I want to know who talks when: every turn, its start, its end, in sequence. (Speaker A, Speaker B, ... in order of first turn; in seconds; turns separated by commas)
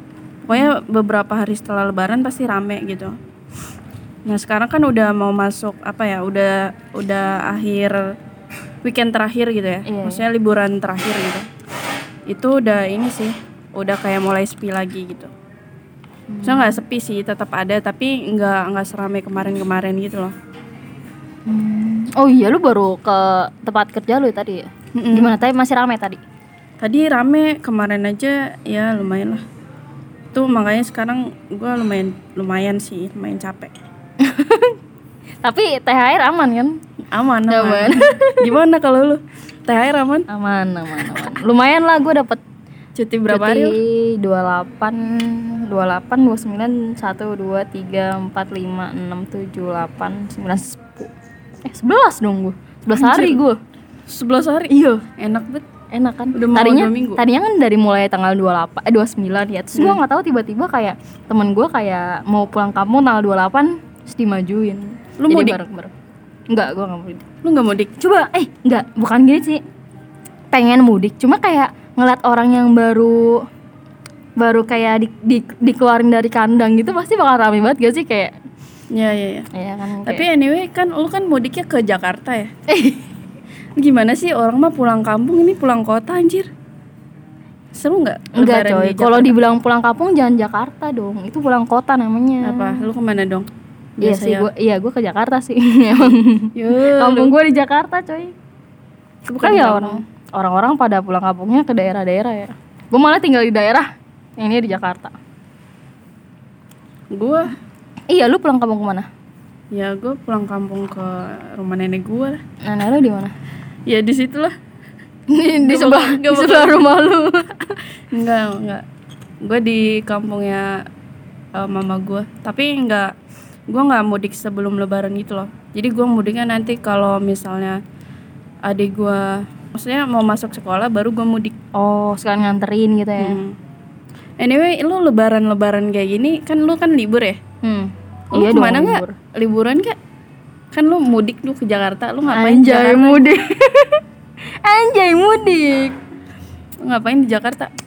Speaker A: 0.5-3.1, Speaker A: 4.2-8.1, Speaker A: 8.8-11.4, Speaker B: 9.8-10.2, Speaker A: 12.3-15.3, Speaker B: 16.3-16.8, Speaker A: 16.4-20.3, Speaker B: 21.4-26.2, Speaker A: 24.9-25.3, Speaker A: 26.8-29.4, Speaker A: 30.3-33.7, Speaker B: 34.2-34.8, Speaker B: 35.4-36.8, Speaker A: 37.1-40.3, Speaker B: 37.5-38.6, Speaker B: 40.3-42.4, Speaker A: 42.9-43.8, Speaker B: 43.3-51.1, Speaker B: 51.6-53.6, Speaker A: 52.9-53.4, Speaker A: 54.1-55.6, Speaker B: 54.7-55.0, Speaker B: 55.9-65.9, Speaker A: 56.3-57.2, Speaker A: 59.7-60.0, Speaker A: 65.2-65.6, Speaker B: 66.5-67.2, Speaker A: 67.4-67.9, Speaker B: 68.0-69.6, Speaker B: 70.5-73.4, Speaker B: 74.4-78.3, Speaker A: 78.9-79.5, Speaker B: 79.5-80.2, Speaker A: 80.0-82.5, Speaker B: 82.7-83.0, Speaker A: 83.8-86.5, Speaker A: 87.7-89.3, Speaker B: 88.3-92.9, Speaker A: 92.4-93.5, Speaker A: 94.0-94.5, Speaker B: 94.0-98.3, Speaker A: 96.5-97.3, Speaker A: 99.2-100.0, Speaker B: 99.4-105.1, Speaker A: 107.1-107.5, Speaker B: 108.1-109.1, Speaker A: 109.7-112.4, Speaker B: 112.6-113.3, Speaker A: 113.9-114.5, Speaker B: 115.3-117.7, Speaker A: 115.6-116.9, Speaker A: 118.1-118.8, Speaker A: 119.4-120.8, Speaker A: 121.5-123.1, Speaker A: 123.7-127.8, Speaker A: 128.7-131.6, Speaker B: 131.7-133.4, Speaker A: 133.2-133.5, Speaker A: 134.4-137.4, Speaker B: 137.6-139.1, Speaker A: 138.3-139.9, Speaker A: 140.7-143.3, Speaker B: 142.3-144.0, Speaker B: 144.6-145.9, Speaker A: 146.8-147.7